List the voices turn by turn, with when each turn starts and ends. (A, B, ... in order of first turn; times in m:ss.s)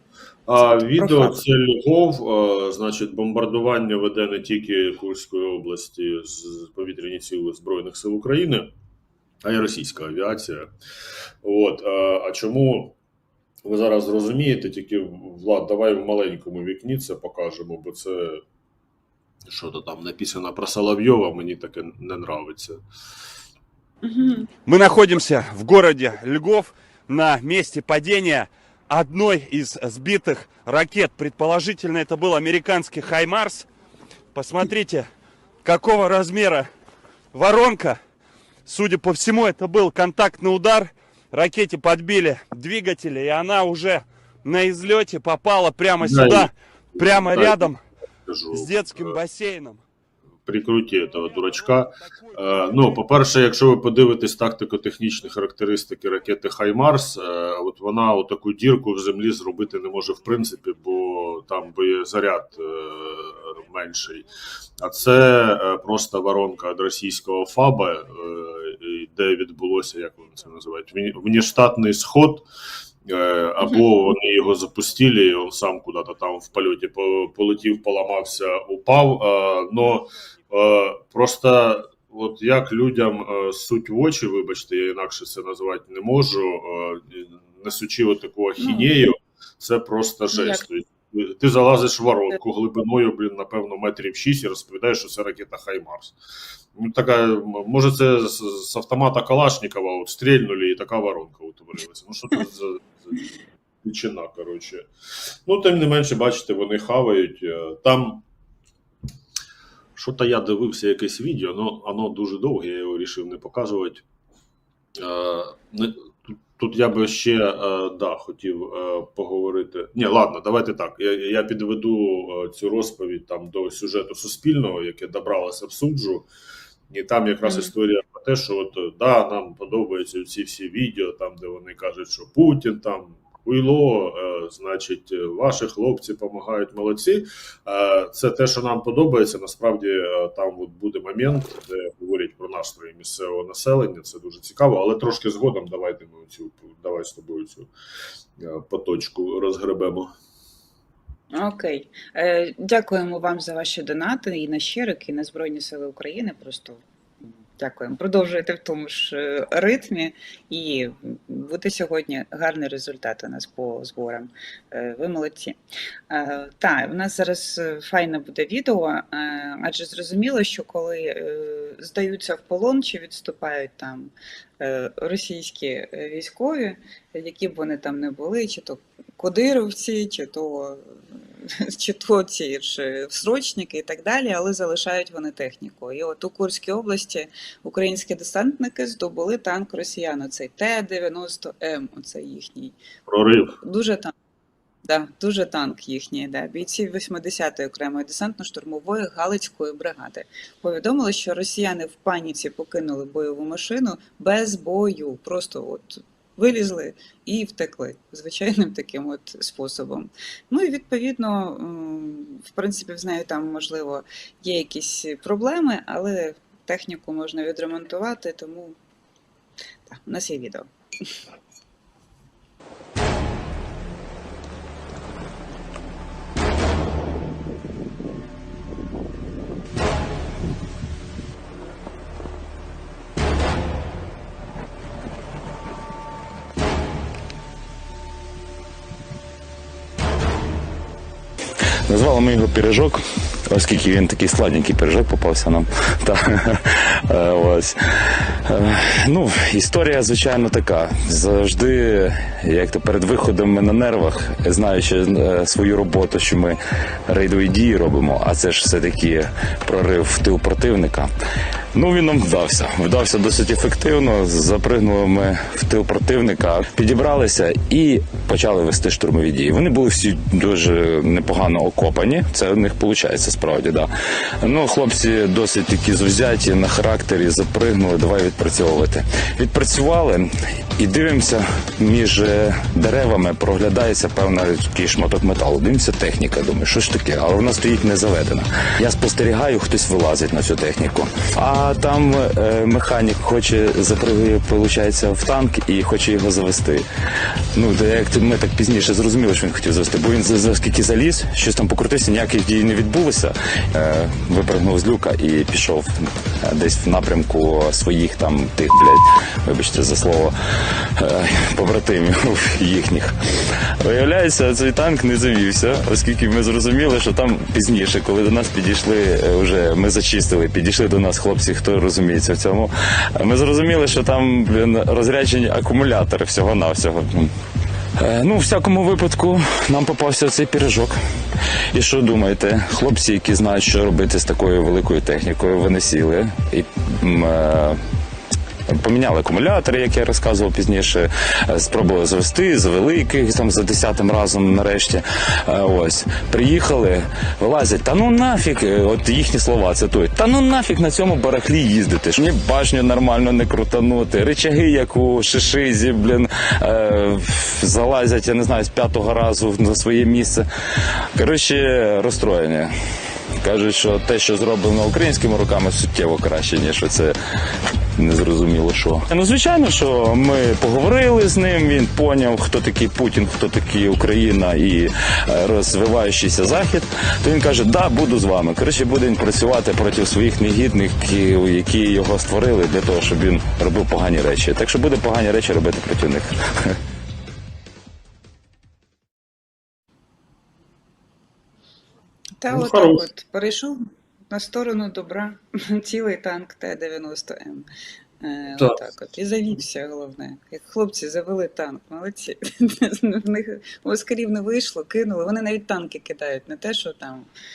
0:00.5-0:08.7 A
0:00.5-0:01.4 B
0:09.4-0:10.7 A
0:11.4-0:13.0 A
0:13.6-0:18.4 A
0:19.5-0:22.8 A
0:24.0-0:24.5 B
0:24.6-0:33.7 C
0:34.3-0:35.1 C
0:35.6-0:36.7 C
0:37.3-0:38.0 C
0:38.6-0:47.8 C
0:46.0-0:47.6 A
0:48.2-0:49.2 A
0:48.5-0:49.8 C
0:50.4-1:04.2 A
0:52.1-0:52.7 C
1:04.8-1:12.4 A
1:13.1-1:36.2 A
1:28.6-1:28.9 B
1:30.3-1:30.6 B
1:36.8-1:44.9 A
1:45.4-1:48.2 A
1:50.0-1:54.0 A
1:55.0-1:56.0 A
1:56.6-2:06.3 A
2:06.9-2:27.7 A
2:07.4-2:07.7 B
2:28.4-2:30.1 A
2:31.3-2:36.8 B
2:37.6-2:45.6 B
2:46.1-3:12.8 B
3:13.1-3:13.6 A
3:13.6-3:14.1 B
3:14.8-3:38.8 B
3:39.9-3:40.7 B
4:01.9-4:21.1 D
4:21.7-4:33.9 D
4:34.4-4:56.8 D
4:57.5-5:05.9 D
5:06.4-5:27.3 D
5:28.0-5:31.0 D
5:31.7-5:37.8 D
5:38.7-6:00.5 D
6:01.1-6:02.7 D
6:03.4-6:07.1 D
6:08.0-6:26.8 D
6:32.4-6:37.6 B
6:32.5-6:33.0 A
6:38.2-6:47.3 B